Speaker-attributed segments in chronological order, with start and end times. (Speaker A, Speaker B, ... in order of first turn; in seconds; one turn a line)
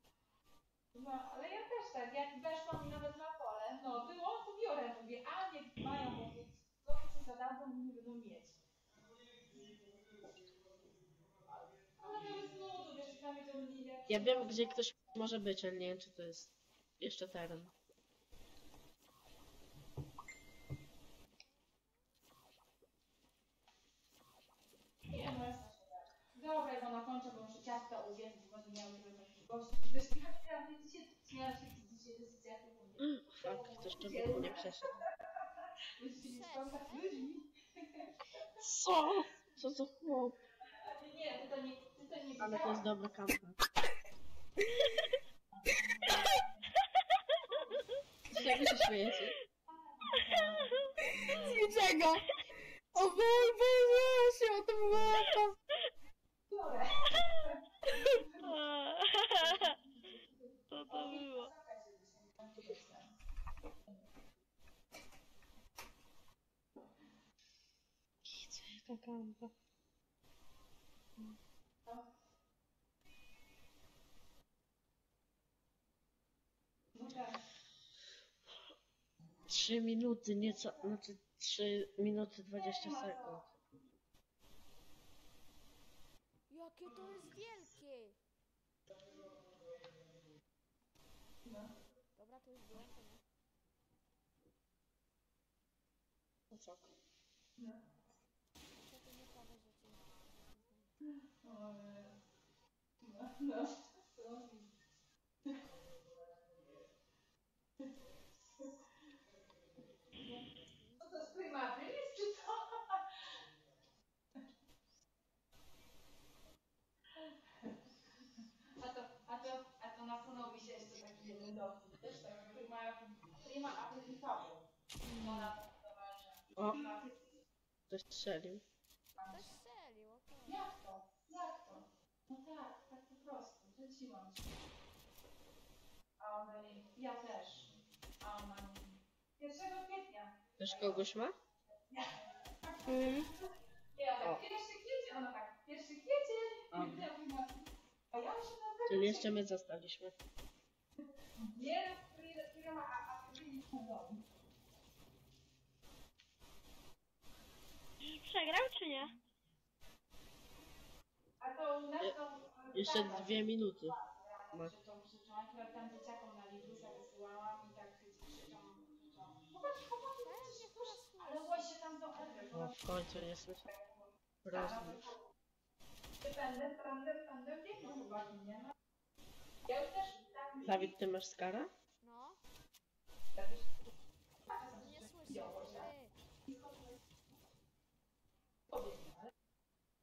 Speaker A: 0.9-8.6
Speaker A: 12.0-14.8
Speaker B: 14.1-17.7
Speaker A: 25.1-35.1
Speaker B: 33.0-35.1
Speaker A: 36.0-38.1
Speaker C: 36.2-37.3
Speaker B: 38.6-40.4
Speaker A: 40.8-42.9
Speaker B: 42.4-43.6
Speaker D: 44.9-45.2
Speaker A: 45.6-46.4
Speaker D: 47.0-47.9
Speaker B: 48.3-49.4
Speaker A: 49.8-51.8
Speaker D: 50.1-50.9
Speaker E: 51.1-52.3
Speaker E: 52.9-55.5
Speaker A: 56.5-58.5
Speaker D: 57.1-57.5
Speaker D: 58.3-59.8
Speaker A: 59.4-59.8
Speaker D: 60.7-61.5
Speaker A: 60.9-63.1
Speaker B: 68.2-69.5
Speaker A: 76.9-77.4
Speaker B: 79.5-83.4
Speaker A: 82.5-83.5
Speaker C: 86.5-88.2
Speaker A: 91.5-91.7
Speaker C: 92.2-93.2
Speaker B: 96.5-97.0
Speaker C: 98.8-100.9
Speaker A: 101.4-102.2
Speaker A: 103.0-104.7
Speaker A: 110.2-110.5
Speaker C: 110.6-111.1
Speaker A: 111.0-113.1
Speaker A: 117.2-117.8
Speaker A: 118.8-127.2
Speaker B: 126.6-126.9
Speaker B: 127.9-128.6
Speaker A: 129.2-129.5
Speaker C: 129.3-130.7
Speaker A: 130.5-134.6
Speaker A: 136.2-141.0
Speaker B: 140.6-141.3
Speaker A: 141.9-143.3
Speaker E: 142.9-143.3
Speaker A: 144.0-149.3
Speaker B: 146.7-147.1
Speaker B: 148.9-150.2
Speaker A: 151.4-154.2
Speaker D: 158.0-159.1
Speaker A: 161.4-172.8
Speaker B: 162.7-164.0
Speaker C: 170.2-171.7
Speaker B: 172.5-173.7
Speaker A: 173.7-175.2
Speaker B: 174.4-175.1
Speaker A: 176.2-178.7
Speaker A: 179.7-180.9
Speaker B: 180.6-181.7
Speaker C: 182.0-182.4
Speaker A: 183.3-183.8
Speaker A: 184.5-185.9
Speaker C: 184.7-186.1
Speaker A: 186.5-186.9
Speaker A: 188.7-189.3